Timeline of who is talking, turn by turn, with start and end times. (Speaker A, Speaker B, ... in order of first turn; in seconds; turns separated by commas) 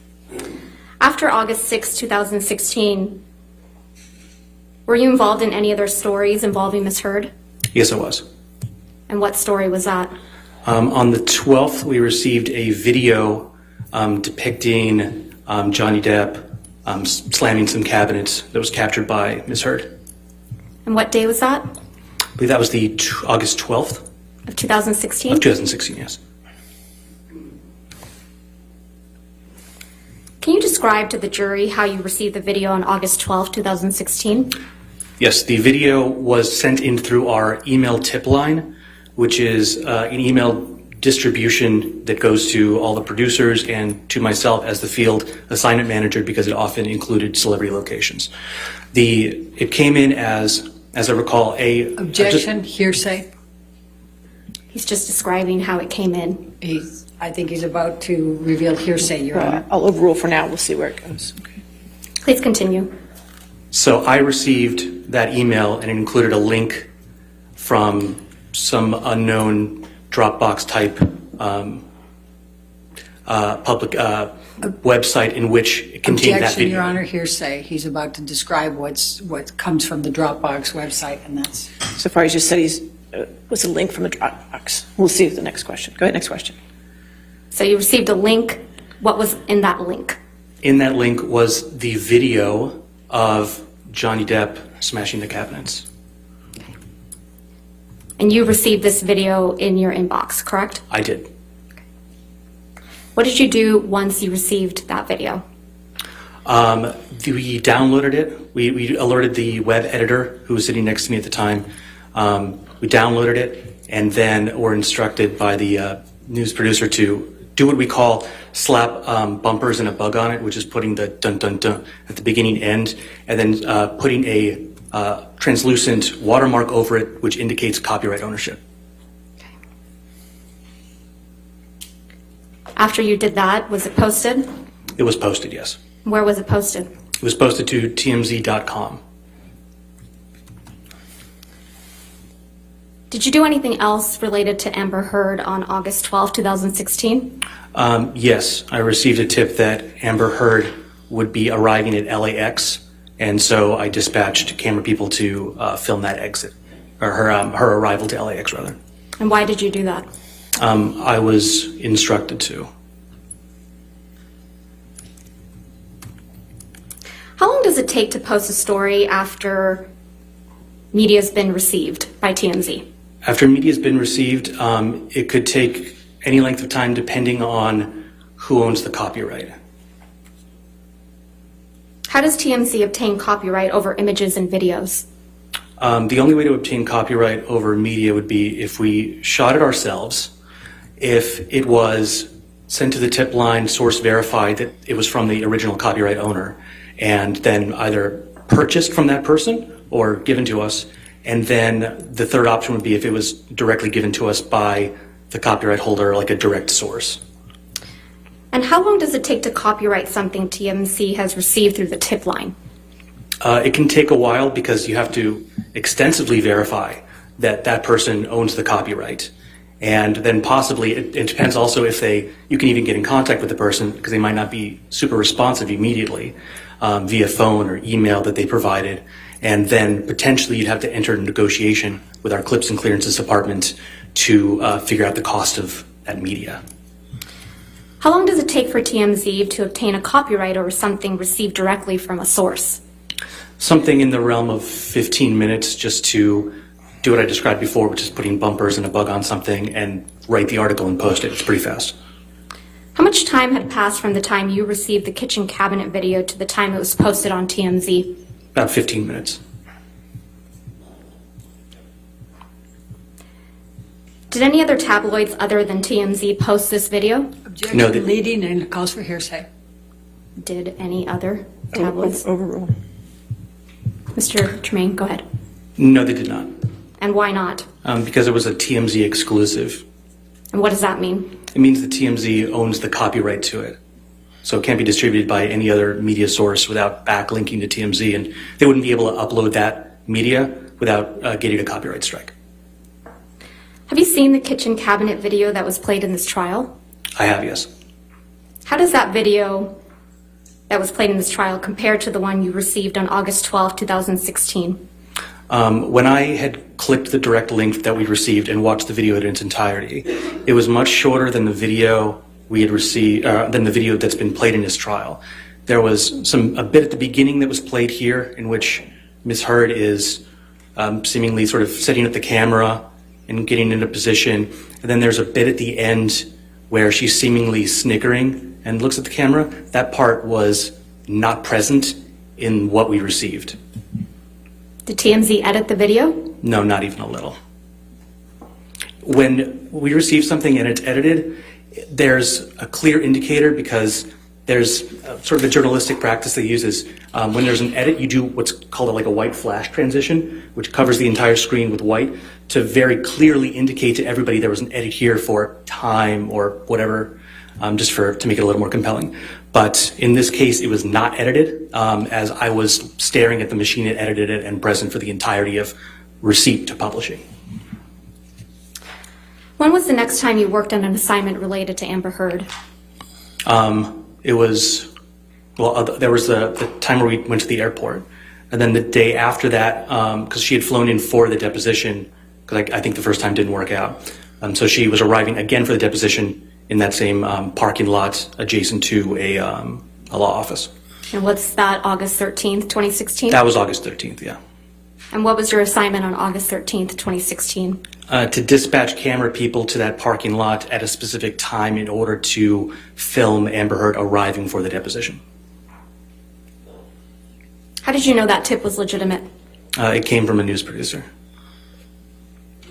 Speaker A: 1.0-3.2, Speaker A: 4.9-7.3, Speaker B: 7.7-8.2, Speaker A: 9.1-10.1, Speaker B: 10.6-19.9, Speaker A: 20.9-21.7, Speaker B: 22.4-24.1, Speaker A: 24.5-25.5, Speaker B: 25.3-26.2, Speaker A: 30.4-34.5, Speaker B: 35.2-48.3, Speaker B: 48.9-52.5, Speaker C: 52.0-53.3, Speaker A: 54.7-56.5, Speaker C: 56.6-59.7, Speaker D: 59.3-61.5, Speaker A: 62.2-62.9, Speaker B: 63.7-66.9, Speaker B: 67.6-71.8, Speaker B: 73.3-77.0, Speaker C: 76.0-81.7, Speaker D: 81.9-86.6, Speaker A: 87.5-90.2, Speaker B: 90.6-95.9, Speaker A: 98.2-100.8, Speaker B: 100.9-101.3, Speaker A: 103.2-105.4, Speaker B: 106.5-128.6, Speaker A: 132.8-134.4, Speaker B: 135.0-135.8, Speaker A: 135.9-136.9, Speaker B: 137.2-139.0, Speaker A: 143.1-147.4, Speaker B: 147.7-158.8, Speaker A: 159.2-160.1, Speaker B: 160.6-162.7, Speaker A: 167.4-169.9, Speaker A: 170.9-172.8, Speaker B: 173.2-179.5, Speaker A: 182.1-185.1, Speaker B: 185.8-190.3, Speaker B: 191.0-207.2, Speaker A: 208.5-212.5, Speaker B: 213.4-236.6, Speaker A: 238.0-242.8, Speaker B: 243.6-251.9, Speaker A: 252.9-258.2, Speaker B: 258.5-259.4, Speaker A: 264.3-267.3, Speaker C: 267.5-269.5, Speaker B: 267.7-268.0, Speaker A: 270.4-272.2, Speaker D: 271.7-272.7, Speaker A: 274.1-275.2, Speaker B: 275.8-276.6, Speaker A: 277.0-277.7, Speaker B: 277.8-279.8, Speaker A: 280.5-281.4, Speaker B: 281.5-283.8, Speaker B: 284.4-292.3, Speaker A: 293.9-296.7, Speaker B: 297.2-297.7, Speaker A: 298.6-299.8, Speaker A: 300.7-304.8, Speaker B: 305.5-320.2, Speaker B: 320.8-333.6, Speaker A: 334.9-336.4, Speaker B: 336.4-337.4, Speaker B: 339.0-367.2, Speaker A: 369.6-372.5, Speaker B: 373.4-374.9, Speaker B: 375.6-390.7, Speaker A: 391.1-393.4, Speaker B: 393.3-394.4, Speaker A: 395.1-397.8, Speaker B: 398.1-405.2, Speaker A: 407.8-409.2, Speaker B: 409.8-411.1